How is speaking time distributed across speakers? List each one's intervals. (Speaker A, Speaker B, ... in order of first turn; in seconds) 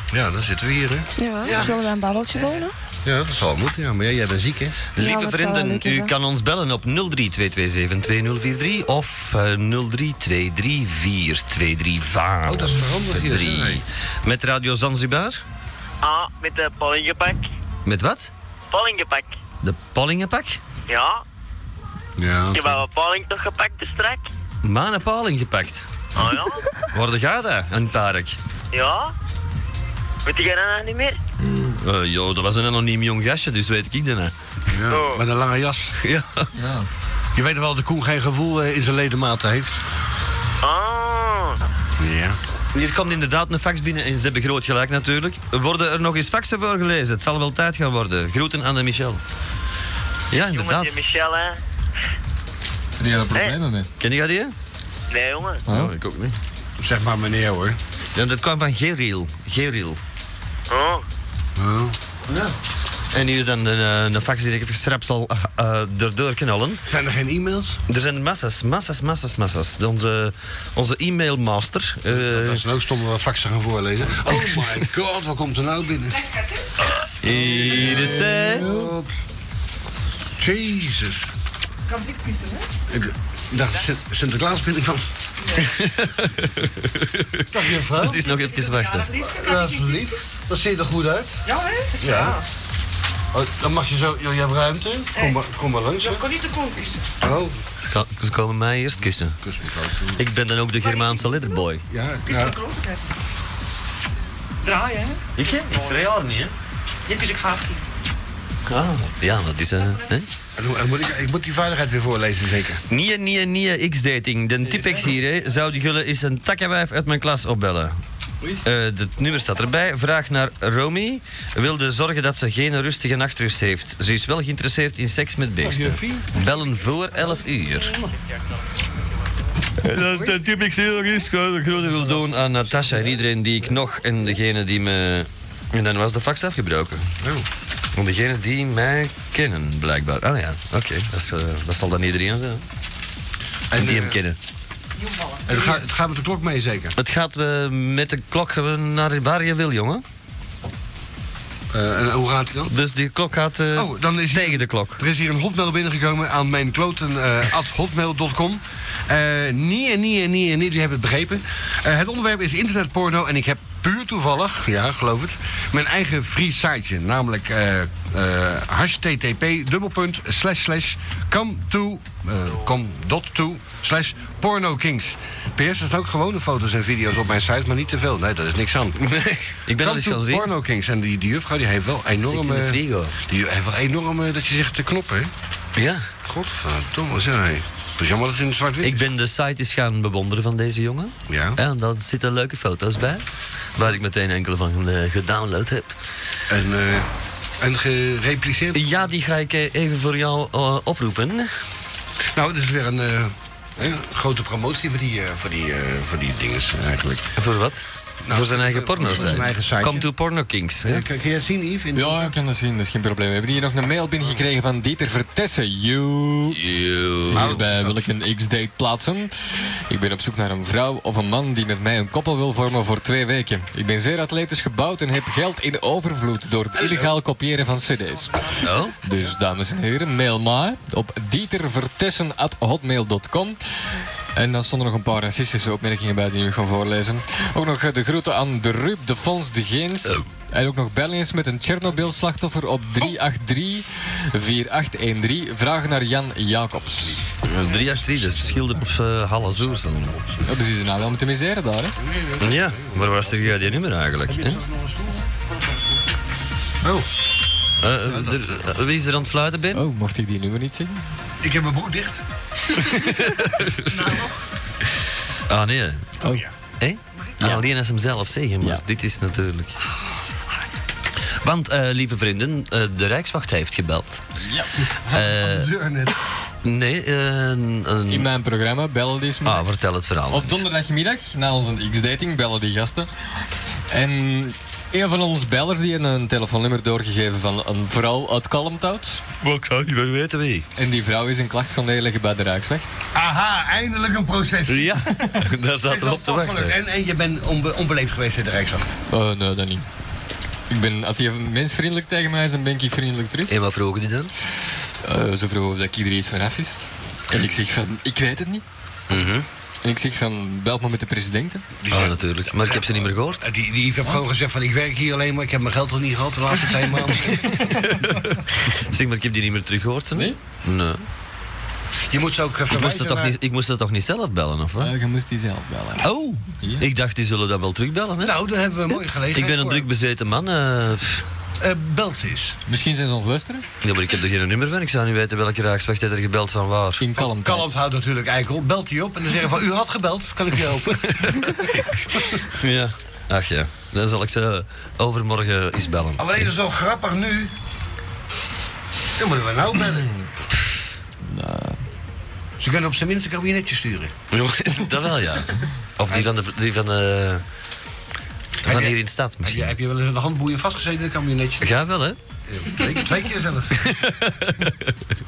Speaker A: 0.1-1.8, 3.0-4.8, 12.4-13.8, 22.2-22.8, 34.7-36.0, 37.4-39.8, 42.0-42.4, 56.8-57.8, 61.6-62.0, 66.8-67.8, 72.1-76.2, 77.3-79.1, 80.4-81.3, 82.9-85.0, 87.5-88.2, 89.3-91.4, 92.0-92.4, 93.3-96.3, 97.2-97.6, 99.3-100.2, 101.9-102.6, 110.6-112.8, 125.6-126.4, 130.0-130.6, 131.9-133.2, 143.7-144.2, 145.5-146.9, 151.7-152.7, 153.7-179.0, 179.7-185.3, 186.2-189.1, 191.3-191.6, 196.5-197.1, 197.6-199.1, 202.3-207.3, 208.2-210.1, 210.8-212.3, 217.3-218.1, 226.8-227.1, 247.6-250.6, 252.0-255.3, 256.8-257.1, 258.1-258.8, 261.4-262.2, 275.1-276.2, 293.1-295.3, 295.8-298.9, 311.8-317.5, 322.1-323.4, 328.2-329.9, 331.6-332.6, 337.2-341.5, 346.2-347.5, 349.2-350.1, 352.6-354.1, 358.6-361.9, 362.5-364.1
Speaker B: 1.2-2.7, 5.0-6.1
Speaker C: 1.5-1.8, 5.0-15.4, 17.9-18.3, 19.6-20.6, 24.6-25.9, 26.9-28.4, 31.8-34.3, 36.0-36.5, 42.7-49.2, 50.3-51.0, 54.0-54.5, 55.7-56.4, 58.1-60.0, 62.3-62.6, 63.1-66.8, 67.9-72.6, 77.2-78.7, 85.5-89.1, 97.8-99.4, 100.2-101.8, 105.4-106.5, 108.7-110.3, 112.9-118.0, 118.6-128.0, 129.8-137.1, 137.9-142.7, 143.8-144.4, 147.0-150.0, 152.7-155.0, 179.0-180.5, 182.2-183.1, 185.8-186.1, 188.8-193.2, 193.8-196.0, 198.8-201.6, 207.4-211.0, 216.5-217.6, 228.6-229.0, 247.4-250.1, 252.4-254.6, 257.8-259.9, 262.8-264.2, 265.5-266.2, 266.8-269.8, 271.4-274.2, 275.1-275.7, 276.6-278.3, 279.4-280.6, 289.4-290.7, 294.7-296.8, 303.5-304.3, 309.1-309.5, 311.9-313.5, 317.4-321.1, 322.7-324.9, 326.0-328.4, 329.2-331.2, 333.8-337.1, 342.4-346.3, 354.3-357.4, 358.6-359.7, 361.6-362.2, 363.8-364.9
Speaker D: 16.0-17.4, 18.7-19.4, 20.9-21.2, 22.5-24.3, 26.1-26.7, 28.7-29.1, 30.2-31.2, 34.9-35.2, 40.6-41.6, 50.5-51.6, 55.1-55.6, 60.7-61.0
Speaker E: 31.4-31.8, 36.6-36.9, 53.0-53.9, 55.7-55.9, 77.7-78.9, 114.6-115.1, 211.9-216.6, 217.3-233.6, 234.3-247.3, 250.4-252.0, 259.7-261.0, 266.2-266.5, 278.1-283.1, 283.9-289.2, 290.8-293.0, 299.1-299.9, 300.7-303.5, 305.0-308.6, 309.8-311.6, 324.8-326.1, 326.6-326.9, 332.7-333.6, 337.0-337.7, 349.9-350.3, 351.2-351.8
Speaker F: 76.2-76.8, 81.9-82.7, 88.2-90.2, 91.5-92.5, 96.0-97.1, 100.8-101.7, 102.3-103.1, 104.6-106.0, 107.1-107.8, 109.8-110.2, 145.0-145.8, 228.2-228.5, 255.6-255.9, 263.9-264.3, 267.1-267.5